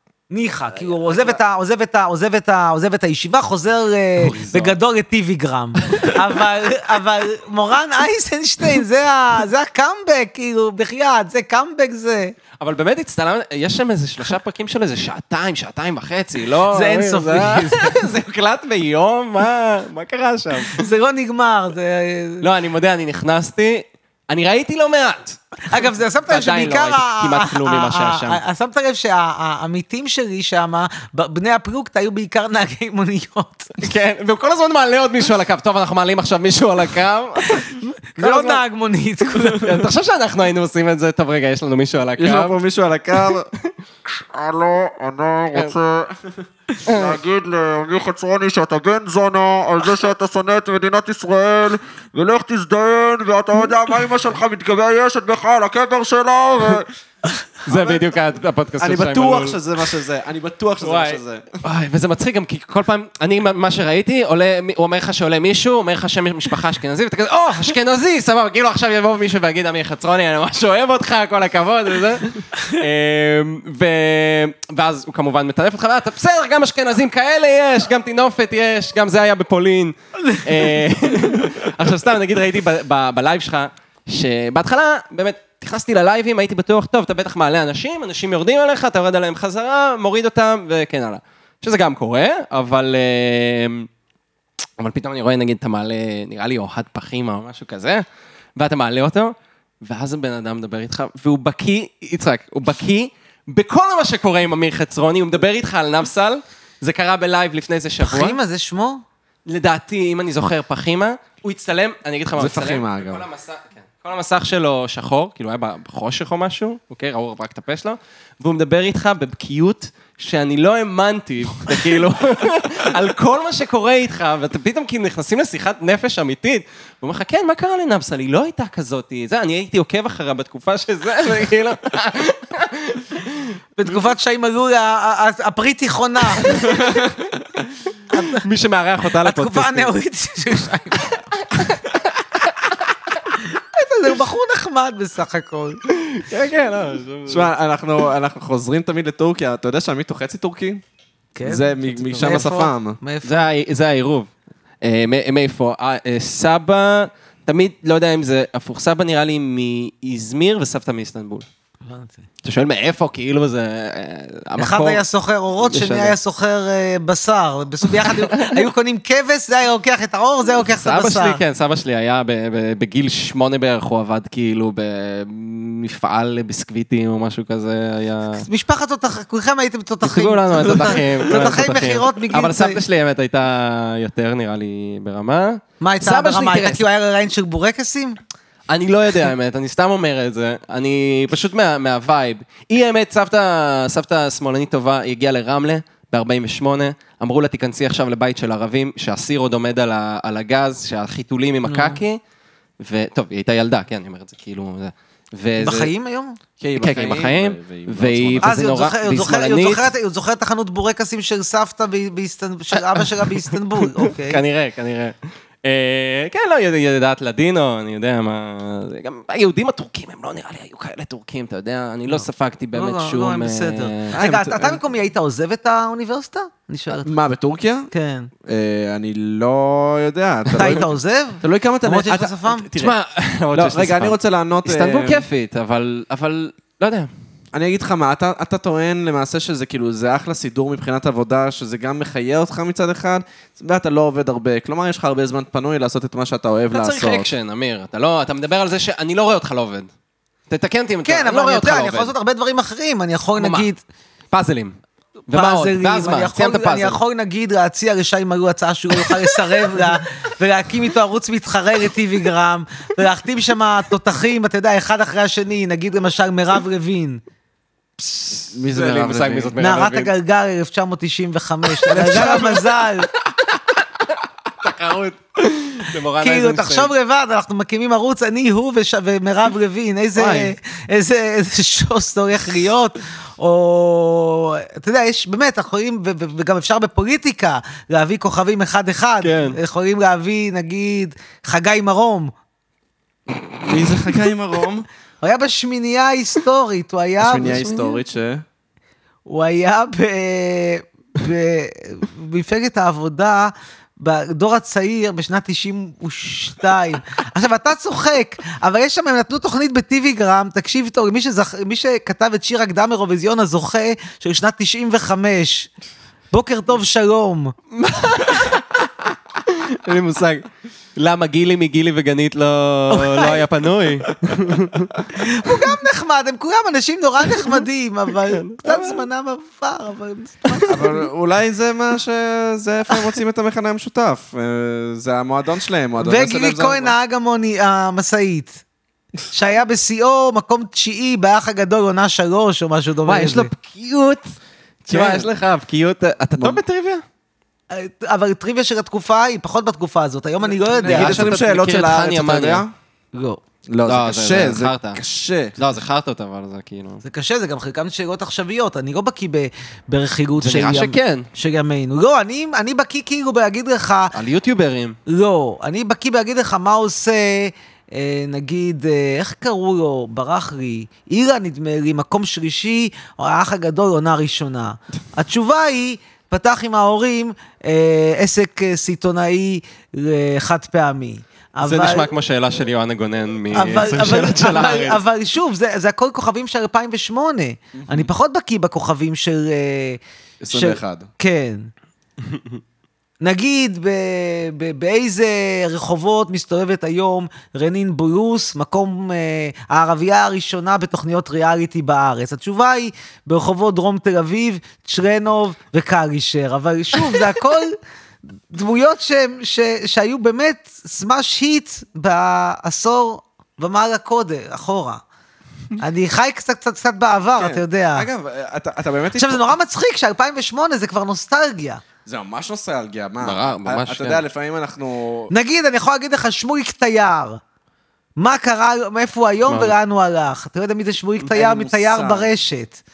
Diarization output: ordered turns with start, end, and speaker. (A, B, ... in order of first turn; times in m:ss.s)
0:00.3-0:12.3 A
0:00.9-0:01.4 B
0:04.2-0:04.8 B
0:12.6-0:20.8 B
0:16.7-0:18.1 A
0:20.7-0:22.4 A
0:22.4-0:25.4 B
0:25.7-0:33.7 A
0:26.3-0:28.4 B
0:33.8-0:38.6 B
0:37.6-0:39.8 A
0:39.5-0:42.6 B
0:42.2-0:43.5 C
0:44.1-0:46.2 D
0:46.9-0:47.2 B
0:46.9-0:56.9 D
0:57.6-0:59.6 B
0:57.7-0:58.0 C
0:58.8-1:01.5 C
1:00.8-1:33.9 B
1:34.8-1:38.0 B
1:38.6-1:48.4 B
1:48.0-1:49.0 A
1:49.4-2:13.9 B
1:52.4-1:53.2 C
2:13.8-2:16.9 A
2:16.4-2:17.0 B
2:18.1-2:18.4 A
2:18.3-2:19.9 B
2:19.2-2:21.2 A
2:21.5-2:22.0 B
2:23.4-2:25.8 A
2:25.9-2:27.5 B
2:27.3-2:30.8 C
2:31.3-2:33.4 A
2:31.4-2:33.0 C
2:32.0-2:32.5 B
2:33.2-2:34.3 B
2:34.8-2:41.4 B
2:41.8-2:42.2 A
2:42.4-2:45.0 B
2:44.6-2:51.4 A
2:45.6-2:46.1 B
2:47.9-2:48.7 B
2:50.6-2:58.5 B
2:58.4-3:02.8 A
3:00.0-3:06.8 B
3:05.8-3:08.2 A
3:08.7-3:22.2 B
3:21.6-3:22.0 A
3:22.8-3:25.9 B
3:25.6-3:26.4 A
3:26.6-3:28.6 C
3:26.8-3:29.9 B
3:28.4-3:34.4 A
3:32.9-3:44.2 B
3:42.1-3:47.1 A
3:44.1-3:44.8 C
3:47.0-3:47.9 C
3:47.9-3:48.3 A
3:48.4-3:50.8 C
3:50.5-3:52.7 A
3:51.4-3:52.9 C
3:52.8-3:57.1 B
3:53.5-3:55.2 C
3:57.5-4:07.3 C
4:06.7-4:09.9 B
4:10.5-4:12.1 B
4:11.0-4:13.8 A
4:13.4-4:13.7 B
4:14.3-4:14.8 B
4:15.3-4:17.0 B
4:15.3-4:27.2 A
4:19.0-4:20.0 B
4:28.5-4:29.5 C
4:28.6-4:30.1 B
4:29.6-4:33.1 A
4:31.8-4:32.7 B
4:31.9-4:32.6 C
4:34.6-4:36.9 B
4:36.2-4:52.3 A
4:40.2-4:40.5 B
4:49.2-4:49.6 B
4:53.6-4:54.9 C
4:55.2-4:57.8 A
4:57.2-4:58.4 C
4:59.2-5:15.7 A
5:16.3-5:17.5 A
5:17.7-5:18.9 B
5:19.4-5:25.0 B
5:22.9-5:23.4 A
5:25.1-5:30.9 A
5:28.3-5:29.0 B
5:30.7-5:36.9 C
5:36.0-5:38.6 A
5:39.3-5:43.5 A
5:43.0-5:44.3 B
5:44.9-5:45.3 C
5:44.9-5:47.0 B
5:47.7-5:51.3 A
5:50.7-5:52.7 C
5:50.8-5:52.6 B
5:53.1-5:53.4 A
5:53.7-5:55.6 C
5:53.8-5:55.0 B
5:55.6-5:57.0 B
5:57.0-6:04.1 A
6:00.4-6:01.3 B
6:04.1-6:05.0 B
6:05.1-6:22.1 A
6:21.6-6:25.0 B
6:23.5-6:30.0 A
6:27.8-6:28.1 C
6:30.4-6:31.1 C
6:30.5-6:31.6 A
6:32.3-6:32.6 B
6:33.2-6:47.8 A
6:48.5-6:55.0 A
6:55.8-6:58.1 A
6:57.4-6:59.5 C
6:59.1-7:01.8 A
7:02.0-7:05.3 C
7:03.2-7:04.2 B
7:05.3-7:07.4 A
7:08.2-7:12.8 A
7:09.5-7:09.7 B
7:11.2-7:12.3 C